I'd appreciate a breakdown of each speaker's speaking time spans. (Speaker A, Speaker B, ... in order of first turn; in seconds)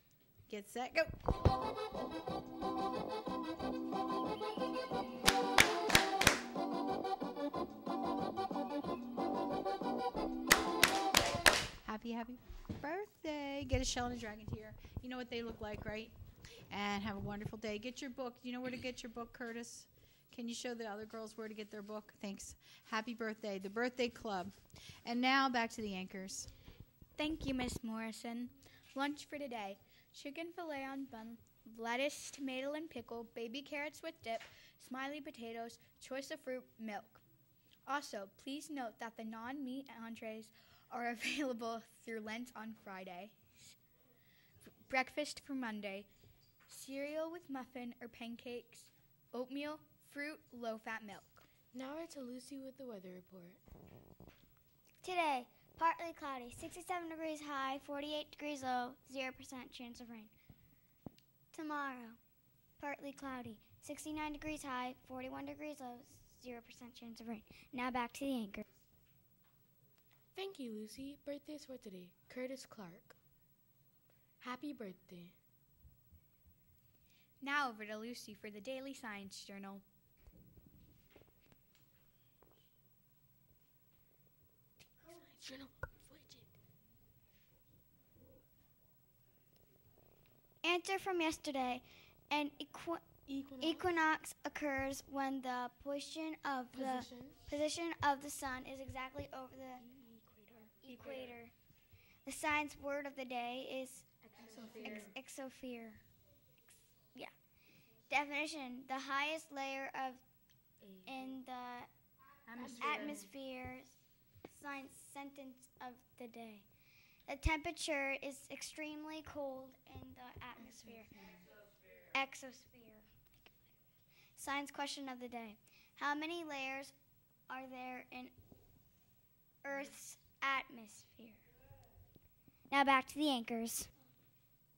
Speaker A: 0.5-1.2, 11.8-16.1, 16.7-26.5
Speaker B: 27.2-37.2, 37.9-43.7, 44.9-46.1, 46.7-51.4, 77.4-79.8, 104.4-105.0
Speaker C: 51.7-53.6, 70.3-73.2, 74.4-75.3, 85.0-86.5, 93.3-94.0, 96.7-97.4, 99.8-101.4, 104.4-105.1, 112.5-113.3
Speaker D: 55.0-60.3, 61.5-62.2, 62.8-68.6, 90.6-93.0, 93.6-99.8, 100.8-101.5, 102.2-104.1, 104.8-106.0, 108.1-110.2, 111.0-111.9, 112.6-114.0, 114.5-116.6, 117.3-121.3, 122.1-123.7, 124.4-126.9, 127.5-128.3, 129.6-131.4, 132.7-133.9